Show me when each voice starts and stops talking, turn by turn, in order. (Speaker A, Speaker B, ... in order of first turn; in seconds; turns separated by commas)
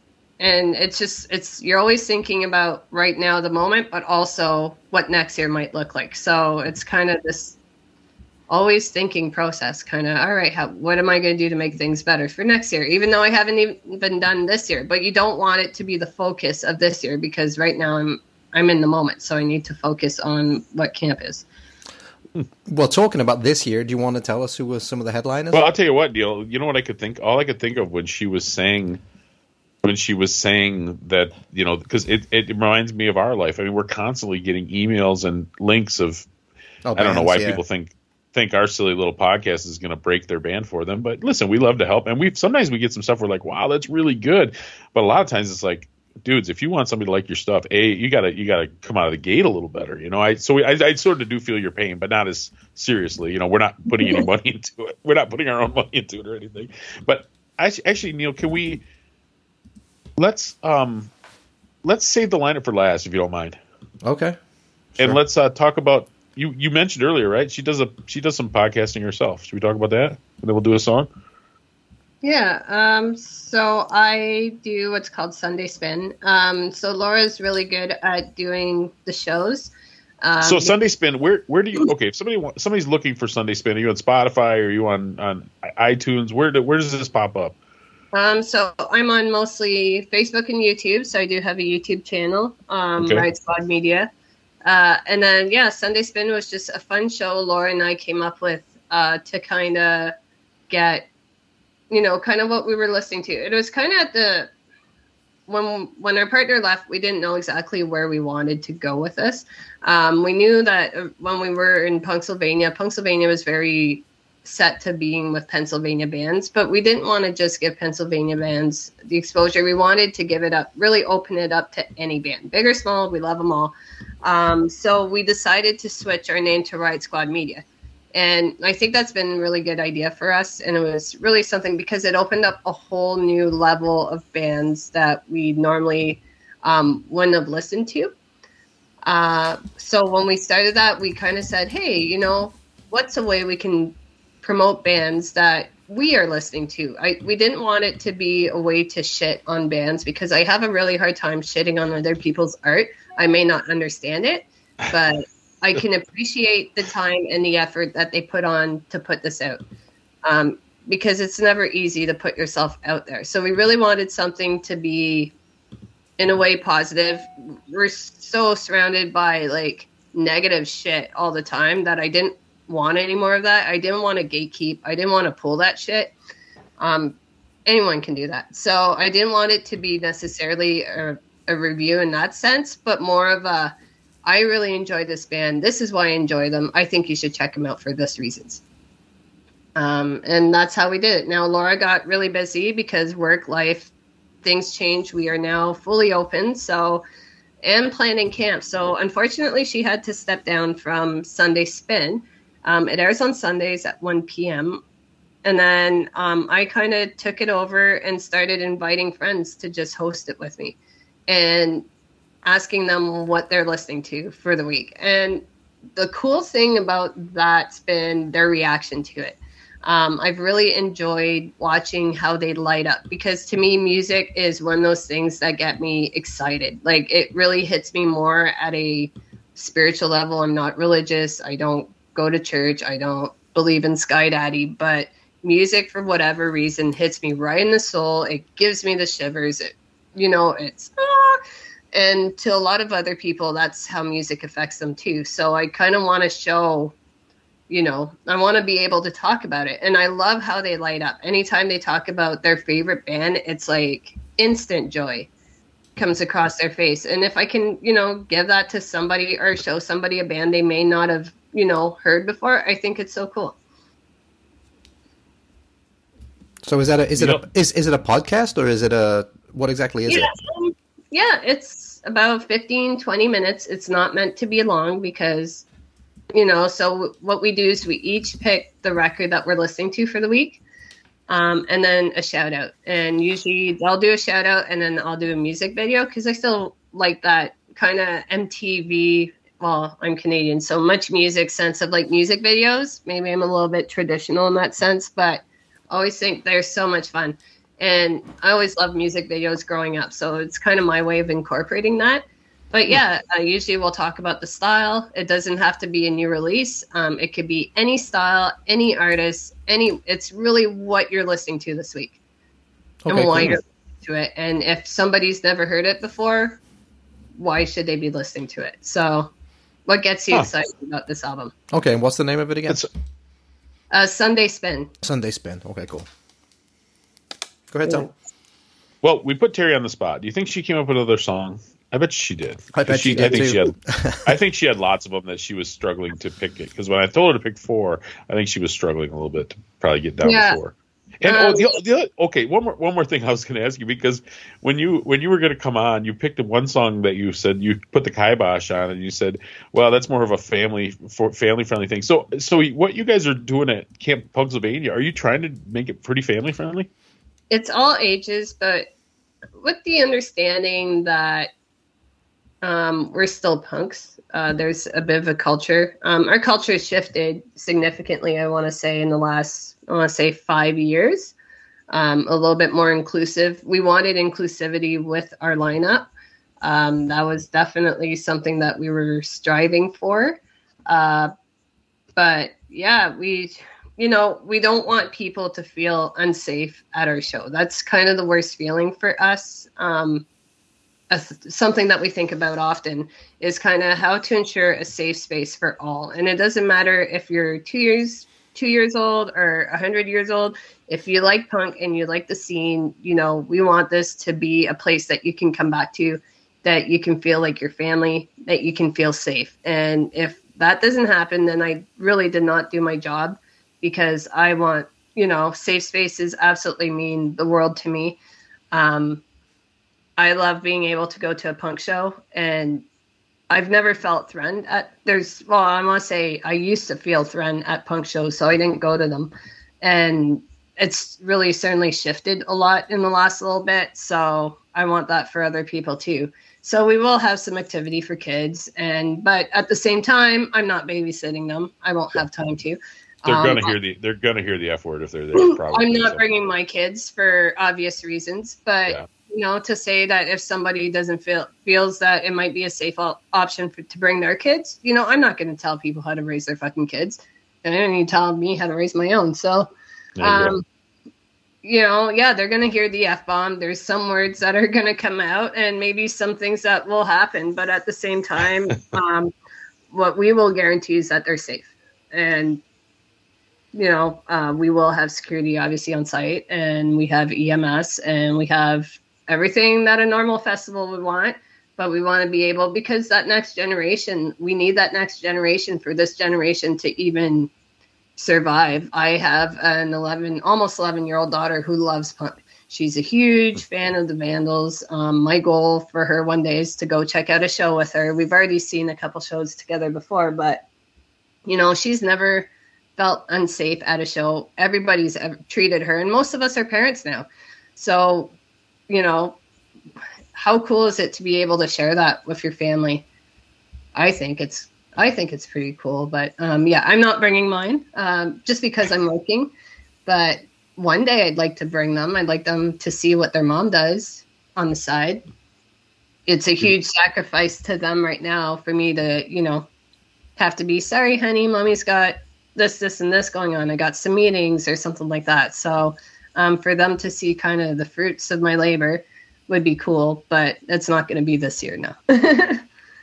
Speaker A: 0.4-7.6, Speaker A: 8.5-21.4, Speaker B: 22.7-25.6, Speaker C: 25.5-29.0, Speaker C: 29.8-36.2, Speaker B: 36.9-37.6, Speaker C: 37.0-58.8, Speaker A: 54.0-54.2, Speaker C: 60.2-61.1, Speaker C: 61.8-63.6, Speaker B: 64.0-64.4, Speaker C: 65.0-71.1, Speaker A: 72.2-80.8, Speaker C: 80.4-87.5, Speaker A: 88.1-94.1, Speaker C: 93.0-93.3, Speaker A: 94.7-100.1, Speaker A: 100.7-101.0, Speaker A: 101.9-104.5, Speaker A: 105.5-138.1, Speaker A: 139.1-159.6, Speaker A: 160.2-165.3, Speaker A: 166.2-176.1, Speaker A: 176.8-177.2, Speaker A: 177.7-183.7, Speaker A: 184.2-188.6, Speaker A: 189.8-193.9, Speaker A: 194.4-197.0, Speaker A: 197.6-204.8, Speaker A: 205.4-210.8, Speaker A: 211.3-211.8, Speaker A: 212.4-215.4, Speaker A: 216.0-241.4, Speaker A: 241.9-246.9, Speaker A: 247.7-255.3, Speaker A: 256.0-263.6, Speaker B: 266.6-270.3, Speaker A: 270.1-275.6, Speaker A: 276.3-280.6, Speaker A: 281.3-312.2, Speaker B: 313.1-313.6, Speaker A: 313.1-316.6, Speaker A: 317.4-319.3, Speaker A: 319.9-321.5, Speaker B: 321.7-322.9, Speaker A: 323.9-324.9, Speaker B: 325.0-326.1, Speaker B: 327.7-328.1, Speaker A: 327.9-328.1, Speaker C: 329.0-333.7, Speaker B: 332.7-334.2, Speaker C: 334.2-356.9, Speaker A: 340.2-340.6, Speaker A: 341.3-341.7, Speaker A: 357.5-358.9, Speaker A: 359.6-361.5, Speaker A: 362.6-371.3, Speaker A: 371.9-376.1, Speaker A: 376.6-381.3, Speaker A: 382.2-390.2, Speaker A: 391.1-418.2, Speaker A: 418.7-419.2, Speaker A: 420.2-422.9, Speaker A: 423.5-443.8, Speaker C: 443.3-446.2, Speaker A: 445.4-459.7, Speaker C: 460.2-460.6, Speaker A: 460.2-460.6, Speaker A: 461.6-469.3, Speaker A: 469.9-472.6, Speaker A: 473.7-487.5, Speaker A: 488.2-500.6, Speaker A: 501.5-508.3, Speaker A: 508.9-509.4, Speaker A: 510.4-513.0, Speaker A: 514.0-519.5, Speaker A: 520.1-525.2, Speaker A: 526.3-529.7, Speaker A: 530.4-542.6